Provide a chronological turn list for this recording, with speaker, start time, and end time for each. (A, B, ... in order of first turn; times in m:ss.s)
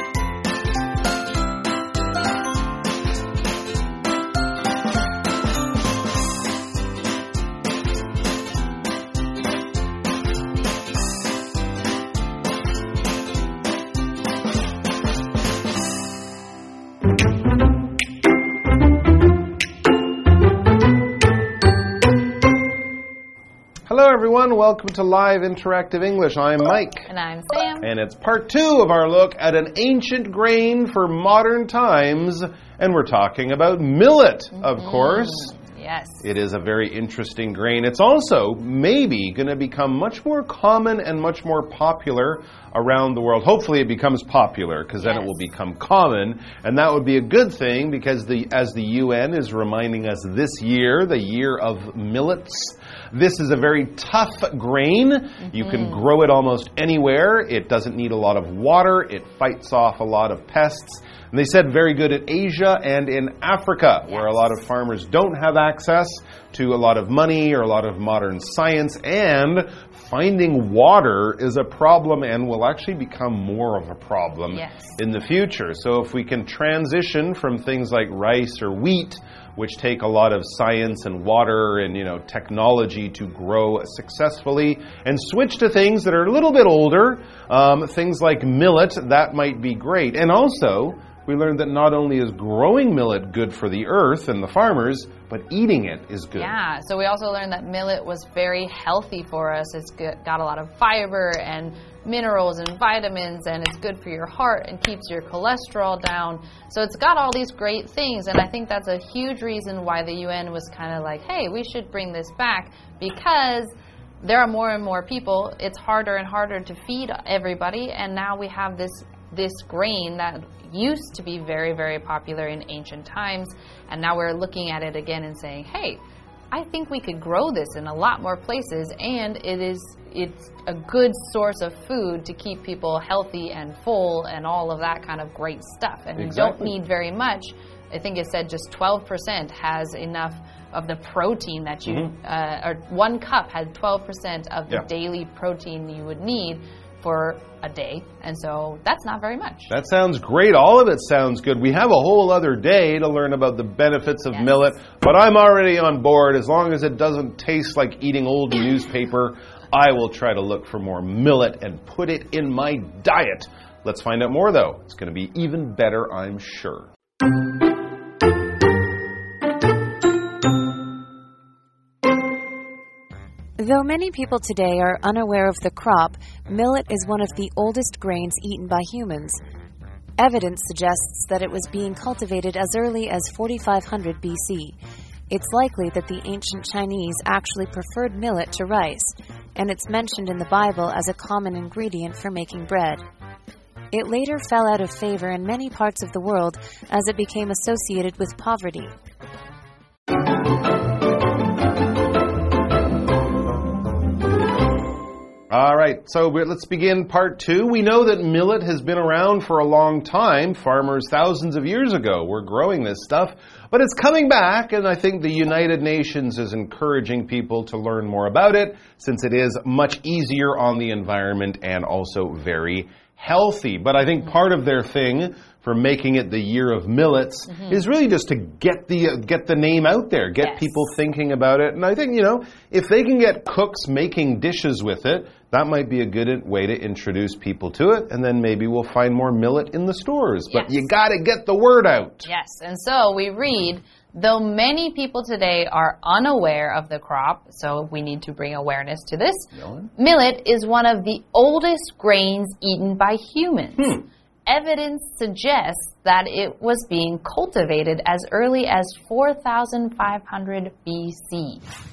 0:23.9-0:27.1 A
0:27.1-0:27.9 B
0:27.8-0:35.5 A
0:34.5-0:36.2 B
0:36.2-1:36.5 A
0:45.0-0:45.3 B
0:55.4-0:56.0 B
1:04.0-1:04.6 B
1:14.5-1:15.0 B
1:36.3-2:06.0 B
2:06.5-2:29.7 B
2:16.2-2:16.7 A
2:29.7-2:46.9 A
2:34.3-2:34.8 B
2:53.6-2:59.4 C
3:00.2-3:04.8 C
3:05.3-3:13.0 C
3:13.9-3:18.9 C
3:25.5-4:02.3 A
3:47.5-3:47.8 B
3:50.4-3:50.8 B
4:00.5-4:00.8 B
4:02.2-4:21.6 B
4:09.5-4:09.9 A